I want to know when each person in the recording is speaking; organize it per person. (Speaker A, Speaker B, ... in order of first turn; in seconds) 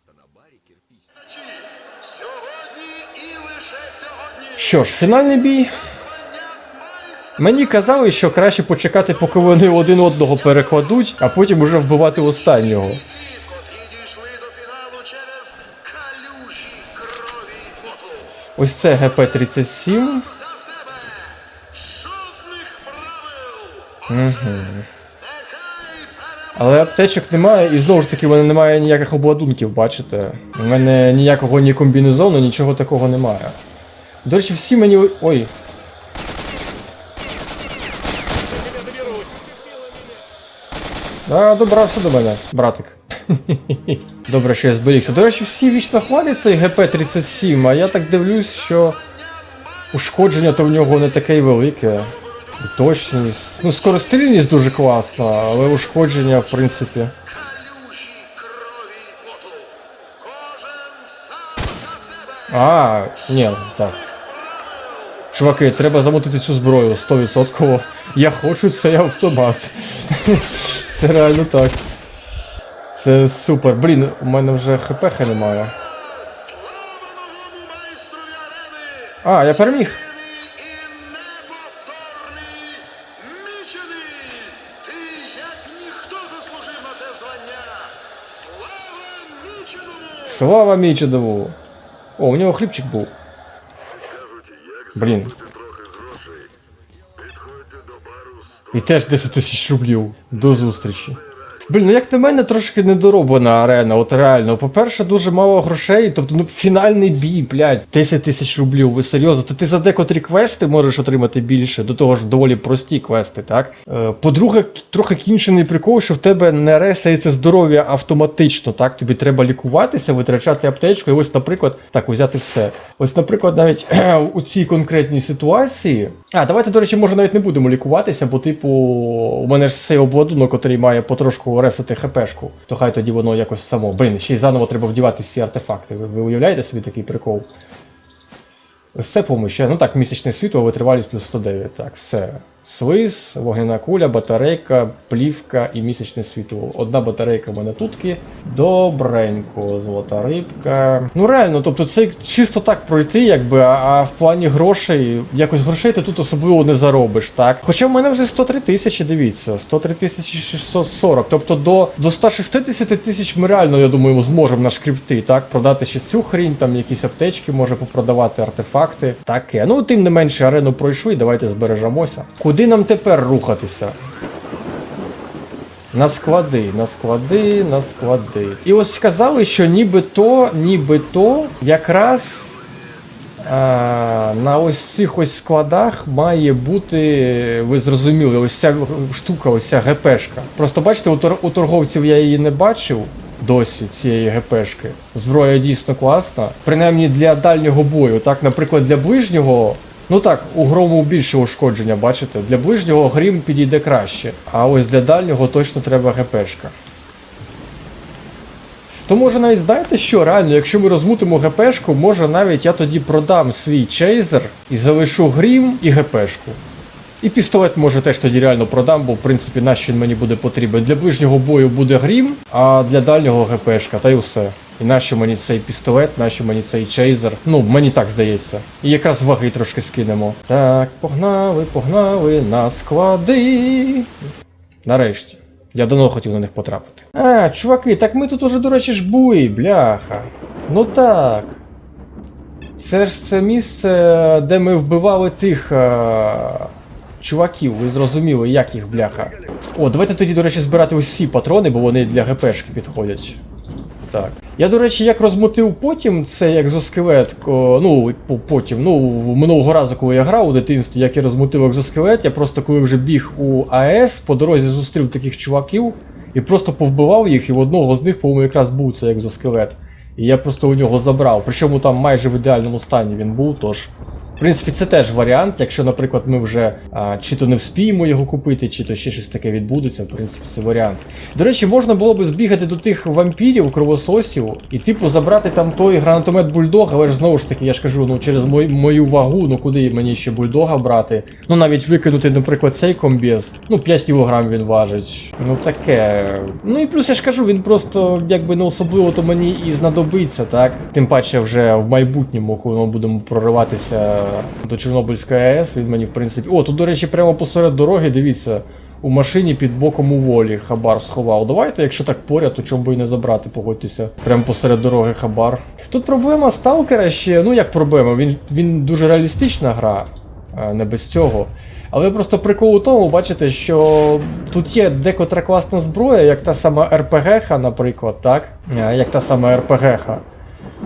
Speaker A: 1.1-4.9, 6.0-7.5, 13.1-18.3, 20.3-24.3, 25.2-26.9, 38.6-40.0, 49.2-49.9, 57.3-62.7, 64.0-65.3, 75.8-79.2, 80.0-90.4, 94.1-96.5, 97.2-98.7
Speaker B: 4.6-5.7, 7.4-13.0, 18.6-20.3, 24.1-24.9, 26.6-33.6, 34.2-35.5, 41.2-49.0, 49.9-57.1, 62.5-64.0, 65.3-71.8, 72.9-75.7, 79.2-80.0, 90.2-91.6, 92.2-93.1, 95.0-95.3, 98.7-137.5, 138.9-174.0, 175.9-182.6, 183.4-206.7, 209.1-216.6, 217.2-234.1, 234.8-241.6, 242.8-253.4, 254.1-330.2